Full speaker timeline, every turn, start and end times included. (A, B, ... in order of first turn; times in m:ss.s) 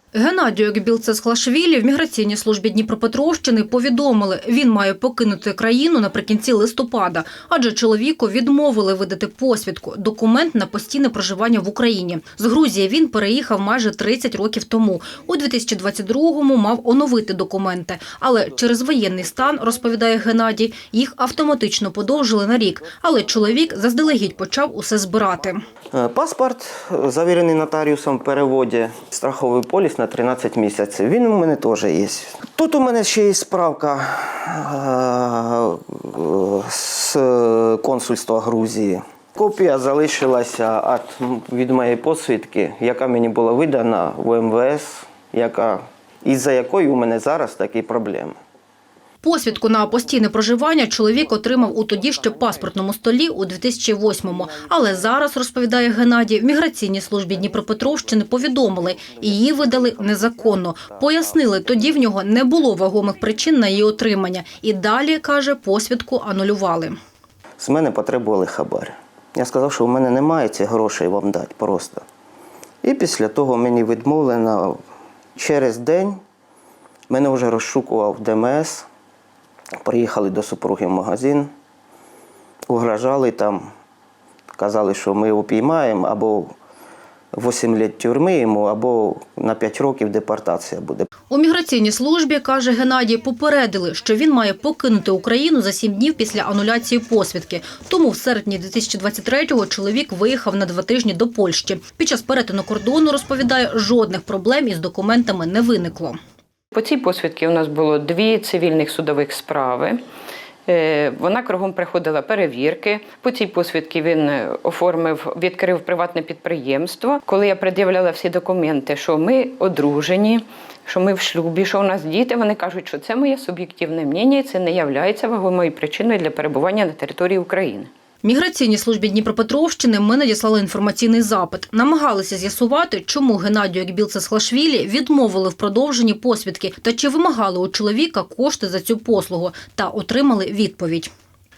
0:00.1-0:25.6 A
0:25.9-0:48.4 B
0:49.2-1:07.0 A
1:07.6-1:12.0 B
1:12.8-1:14.8 B
1:15.4-1:16.2 B
1:17.1-1:18.9 B
1:19.8-1:21.5 B
1:22.7-1:23.7 B
1:24.6-1:26.5 B
1:27.3-1:31.1 B
1:31.3-1:46.2 A
1:46.7-1:50.0 C
1:50.7-2:07.9 C
2:08.2-2:21.1 A